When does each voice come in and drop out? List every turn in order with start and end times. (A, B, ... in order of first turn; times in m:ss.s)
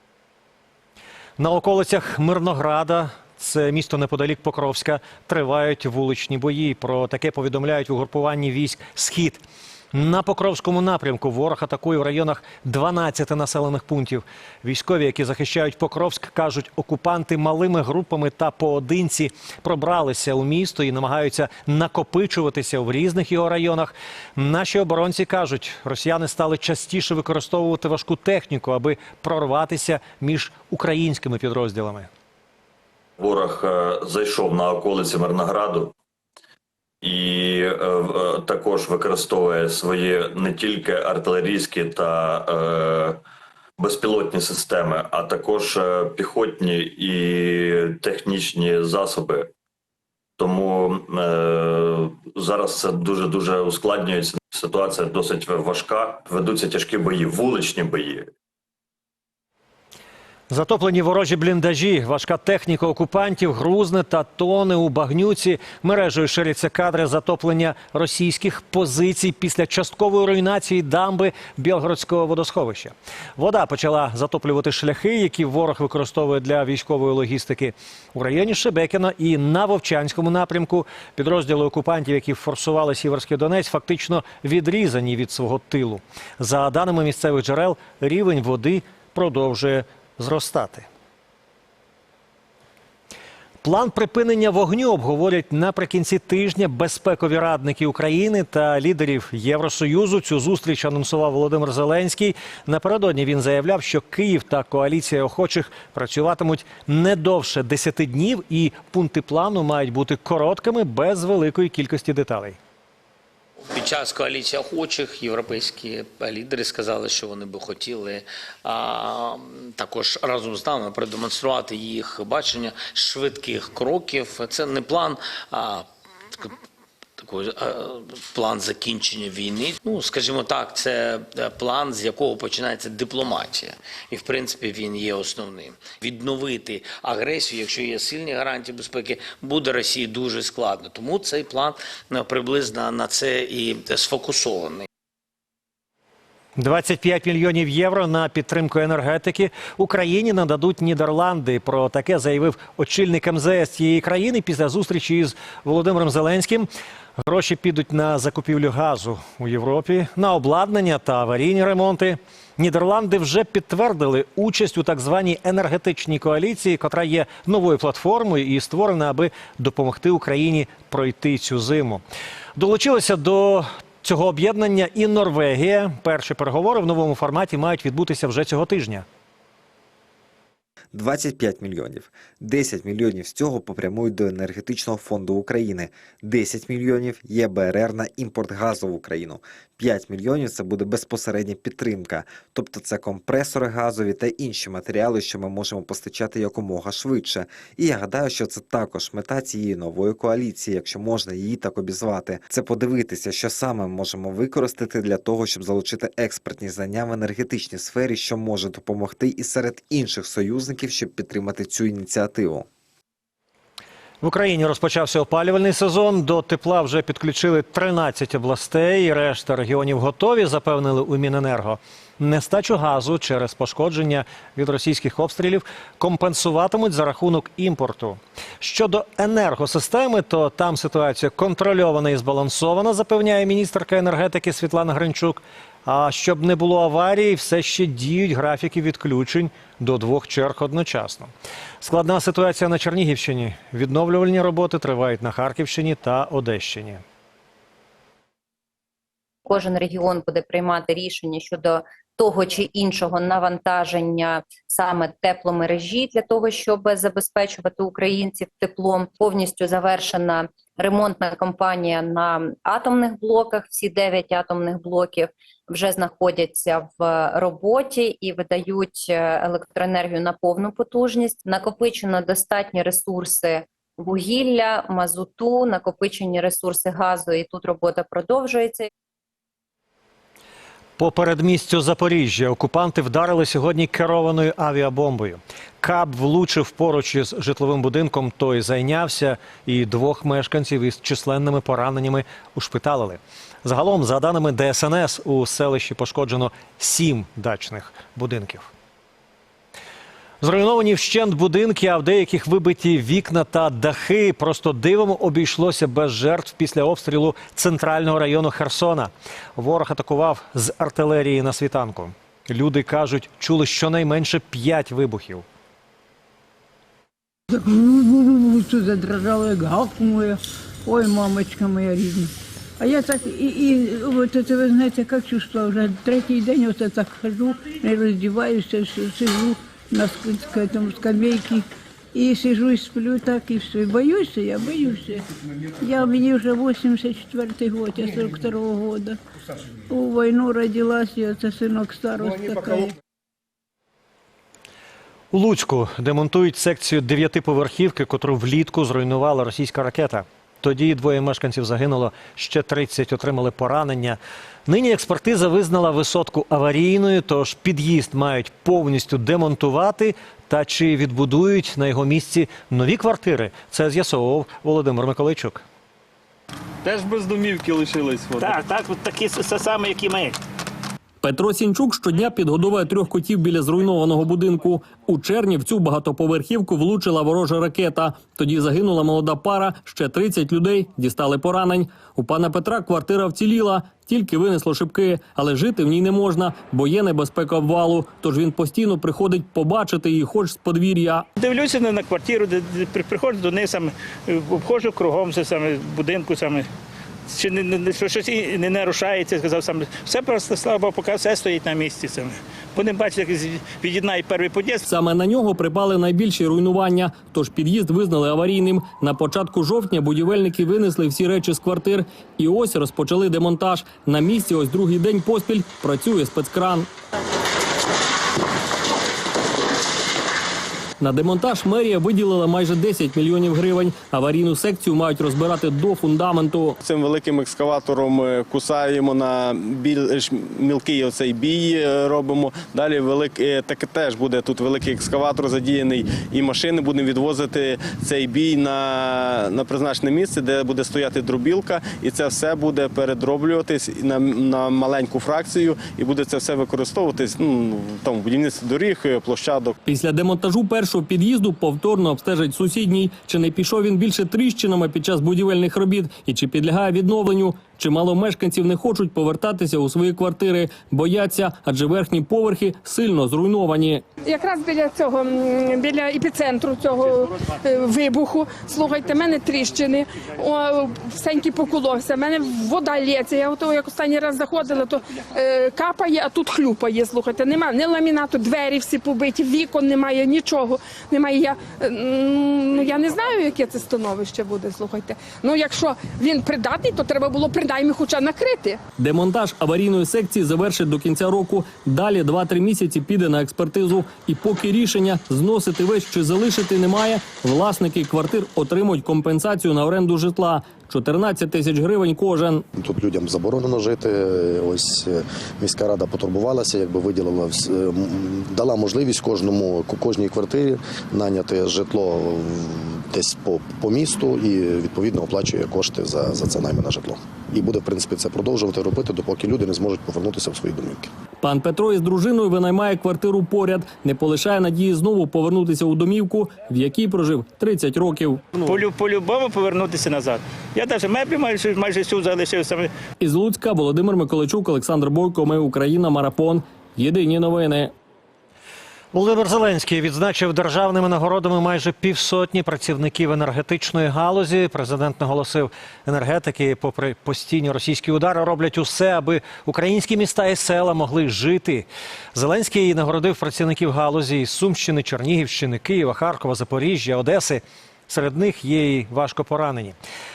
0:01.4-0:32.1 A
0:33.2-0:35.9 B
0:37.0-0:43.2 B
0:43.8-0:49.5 B
0:50.4-0:58.3 B
1:00.5-1:30.9 A
1:33.6-1:52.6 A
1:53.7-2:05.9 C
2:07.2-2:24.9 C
2:26.6-2:36.7 A
2:37.2-2:52.0 A
2:52.6-2:59.0 A
3:00.9-3:32.7 D
3:34.2-4:07.0 A
4:09.5-4:38.9 E
4:41.0-4:58.7 A
5:00.4-5:15.4 A
5:17.5-5:35.3 F
5:35.8-5:39.2 F
5:39.9-5:42.9 F
5:45.3-6:05.6 A
6:08.4-6:10.3 G
6:11.2-6:31.2 H
6:31.4-6:36.7 G
6:37.3-6:44.8 G
6:44.9-6:56.9 H
7:01.0-7:06.8 H
7:06.8-7:29.7 I
7:29.9-7:44.0 H
7:44.2-8:08.8 J
8:09.0-8:22.6 H
8:22.8-8:41.1 K
8:41.4-8:48.5 H
8:48.6-8:52.9 G
8:53.2-8:57.9 H
8:59.1-9:20.0 A